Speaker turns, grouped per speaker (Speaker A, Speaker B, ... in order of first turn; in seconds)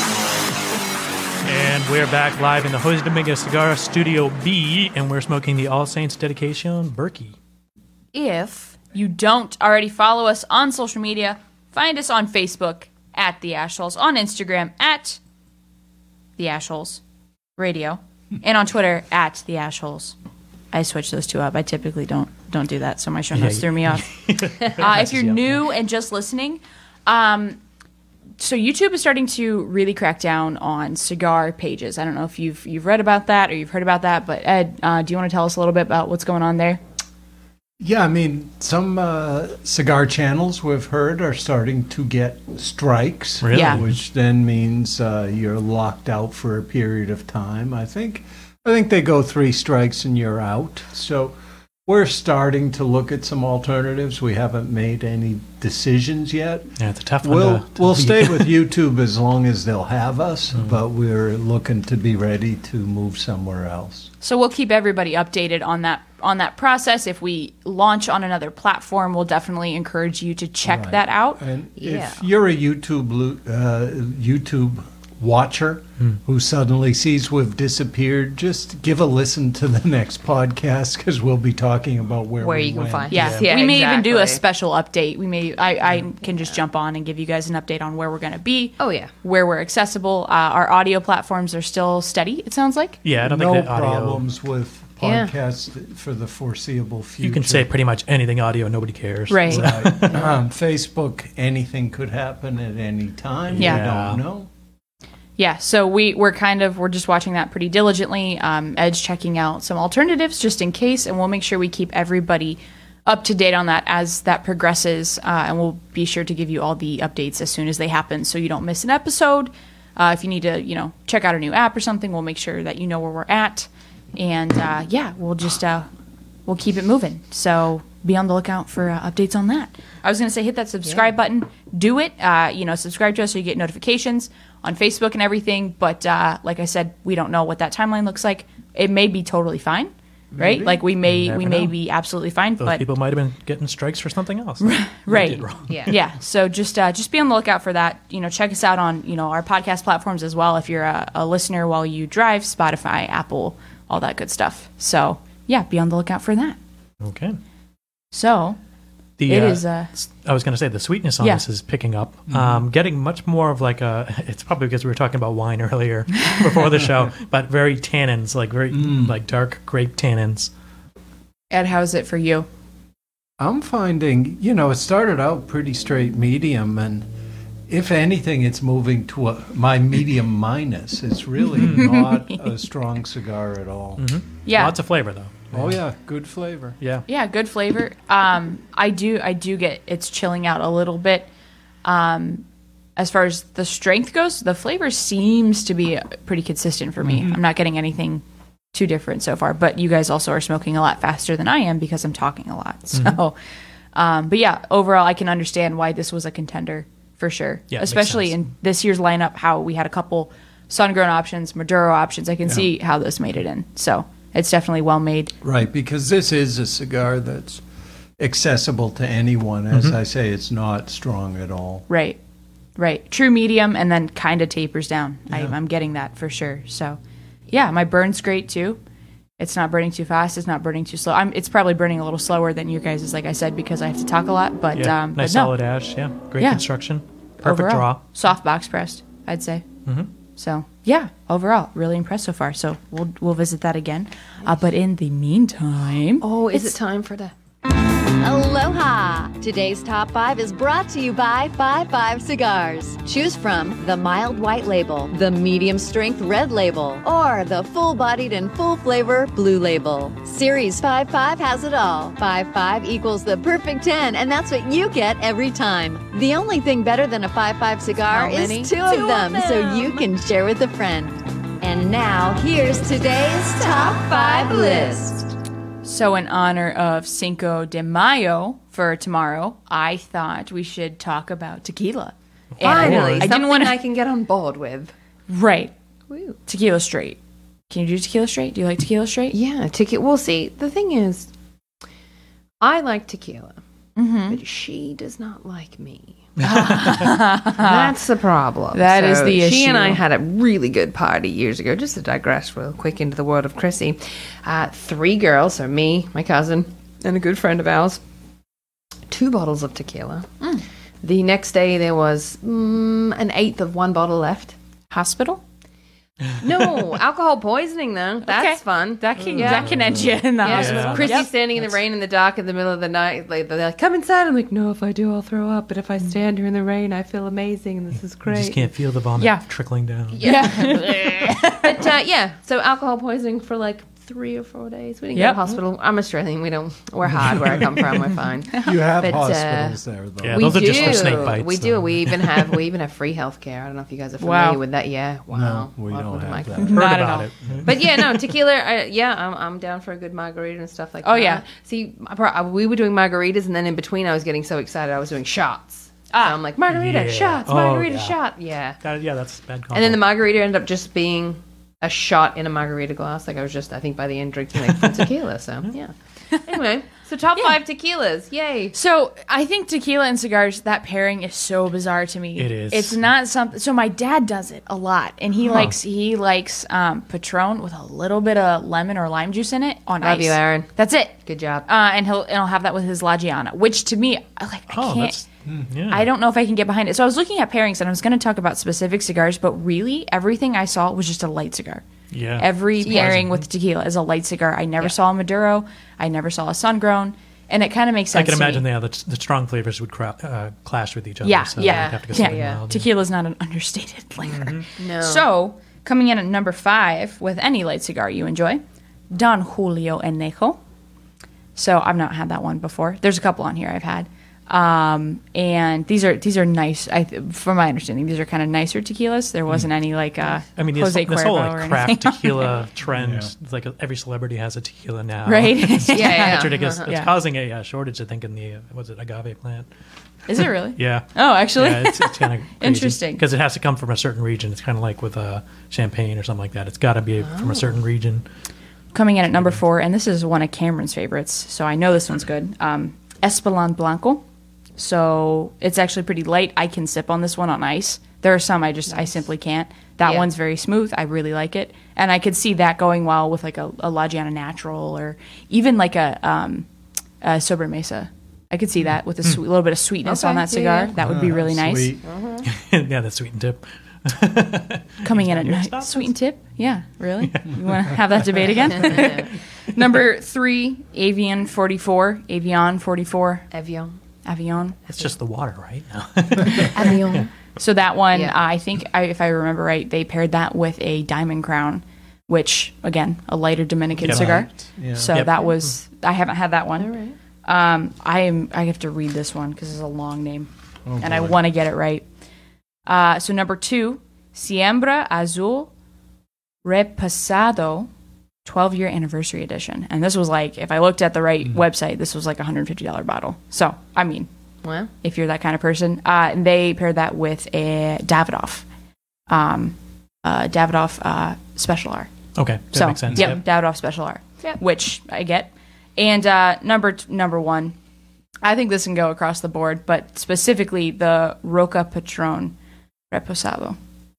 Speaker A: 1.4-7.4, 23.3-25.6, 43.4-43.9, 56.8-58.6, 93.0-94.2, 97.2-100.2, 103.5-104.2, 141.0-141.8, 142.6-146.0, 157.0-157.4, 159.2-170.5, 181.6-181.9, 184.0-185.8, 186.8-187.1, 207.7-208.4, 234.7-238.0, 282.6-283.3, 319.3-321.3, 328.3-330.5, 340.2-342.5, 346.7-348.1, 356.7-358.2, 358.8-360.1, 372.4-373.1, 384.7-386.1, 392.1-393.4, 398.1-402.9, 404.2-404.6, 420.6-429.7, 430.3-438.2, 462.5-466.1, 467.2-469.1, 474.9-477.3, 484.0-484.5, 485.1-485.7, 512.4-513.4
Speaker B: 8.1-15.2, 16.4-17.0, 17.6-20.2, 20.7-24.1, 24.7-27.6, 28.4-36.8, 43.5-43.8, 64.2-71.4, 83.1-93.0, 99.3-99.7, 105.4-125.9, 126.5-142.8, 144.6-156.6, 158.1-158.6, 159.3-159.9, 171.5-172.5, 181.6-182.6, 184.5-184.8, 187.1-191.3, 191.8-192.4, 193.0-203.4, 203.9-215.3, 221.9-222.2, 222.8-227.0, 227.5-228.8, 229.4-235.5, 236.4-236.6, 237.4-239.7, 240.4-246.8, 275.8-283.8, 285.3-285.7, 286.4-287.2, 287.7-289.4, 294.0-294.4, 296.4-297.9, 298.7-300.0, 314.9-315.4, 318.2-321.3, 330.2-331.8, 335.1-335.4, 344.2-344.6, 346.6-347.3, 351.0-351.4, 356.1-356.4, 368.7-385.2, 385.9-391.8, 392.4-398.6, 401.2-408.6, 409.1-410.6, 411.6-422.6, 425.3-427.1, 430.3-433.2, 438.9-444.2, 444.8-456.7, 457.2-462.0, 465.0-473.5, 474.2-474.9, 476.5-486.9, 487.4-492.1, 492.9-495.7, 496.6-497.9, 498.4-504.3, 505.0-508.6, 509.3-512.1, 512.7-517.8, 518.4-522.5, 523.1-523.8
Speaker C: 37.8-64.1, 70.7-83.3, 93.2-97.7, 99.5-104.5, 162.3-162.7, 168.7-169.2, 173.4-177.1, 177.7-184.1, 185.5-186.8, 215.4-217.6, 218.2-221.9, 225.3-225.6, 338.6-341.4, 345.3-346.9, 347.5-347.7, 422.9-423.3, 461.0-462.1, 484.0-485.1, 490.9-491.4
Speaker D: 71.8-72.2, 82.4-84.4, 88.8-89.1, 95.0-95.3, 145.7-146.0, 246.2-247.3, 268.0-270.1, 273.6-275.3, 282.6-284.9, 286.1-286.4, 289.3-291.3, 292.6-293.6, 294.3-296.3, 297.5-308.0, 309.1-310.3, 311.0-314.6, 316.4-328.7, 330.1-339.8, 340.3-358.8, 359.7-365.9, 366.4-368.8, 380.0-380.7, 381.2-381.6, 392.8-393.2, 401.6-402.6, 404.8-405.3, 425.9-426.9, 437.2-437.7, 448.9-449.2, 450.0-450.3, 460.0-460.9, 462.0-462.5, 468.7-469.3, 473.5-474.0, 478.1-478.4, 486.8-487.2, 504.6-504.9
Speaker E: 248.2-275.2